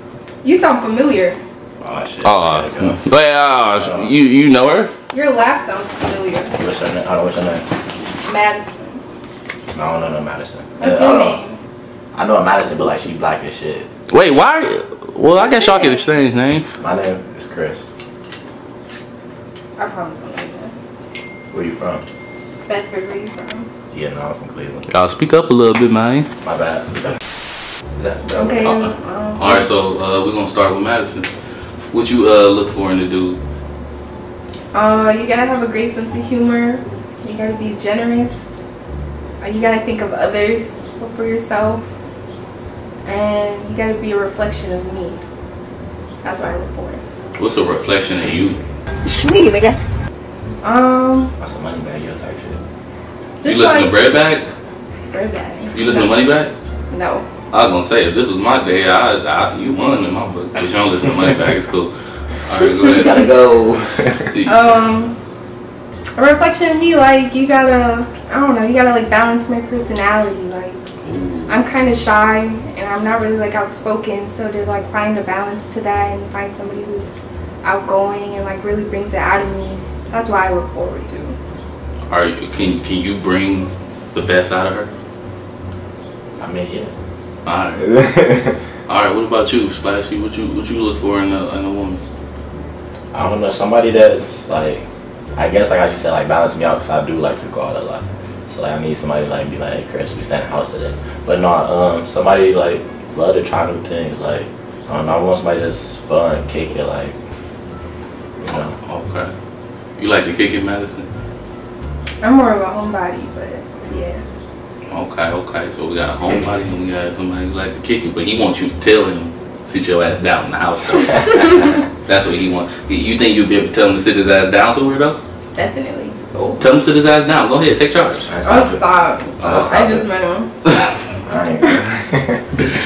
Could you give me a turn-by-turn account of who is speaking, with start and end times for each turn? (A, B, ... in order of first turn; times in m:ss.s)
0:00.4-0:01.4 A
0:01.8-0:03.0 B
0:02.2-0:04.9 C
0:03.8-0:04.1 B
0:05.1-0:06.5 A
0:06.6-0:07.6 B
0:08.2-0:09.0 A
0:09.7-0:11.4 B
0:10.8-0:11.6 A
0:12.1-0:13.9 B
0:14.1-0:16.7 C
0:15.4-0:16.1 A
0:16.8-0:17.8 B
0:19.8-0:20.7 A
0:21.5-0:22.1 B
0:22.6-0:23.7 A
0:23.9-0:24.9 B
0:24.9-0:26.3 C
0:26.4-0:27.1 B
0:28.0-0:28.8 B
0:28.3-0:29.6 A
0:28.6-0:31.3 C
0:31.9-0:33.4 C
0:34.7-0:38.4 A
0:39.4-0:41.8 A
0:43.0-0:45.2 A
0:46.2-0:47.0 A
0:47.4-0:48.6 C
0:50.6-0:51.3 A
0:51.4-0:52.6 B
0:53.4-0:54.0 A
0:53.4-0:54.5 C
0:55.1-0:56.2 A
0:55.7-0:56.5 C
0:56.9-0:57.2 A
0:57.5-1:01.9 C
1:02.4-1:03.3 C
1:02.8-1:04.4 B
1:04.3-1:04.7 C
1:04.4-1:05.1 A
1:06.2-1:10.8 A
1:11.0-1:11.6 C
1:11.5-1:21.4 A
1:22.1-1:24.9 C
1:26.4-1:26.9 B
1:27.4-1:28.0 C
1:27.8-1:28.6 B
1:28.9-1:32.0 C
1:33.1-1:34.8 B
1:35.4-1:47.2 B
1:48.4-1:48.8 B
1:48.5-1:49.3 C
1:50.0-1:51.1 C
1:52.2-1:54.2 A
1:54.9-2:05.2 C
2:01.2-2:01.8 B
2:01.3-2:01.7 A
2:05.5-2:06.5 A
2:06.6-2:08.3 C
2:08.2-2:08.8 B
2:08.4-2:10.5 A
2:09.4-2:10.0 B
2:09.4-2:09.7 C
2:11.2-2:12.6 B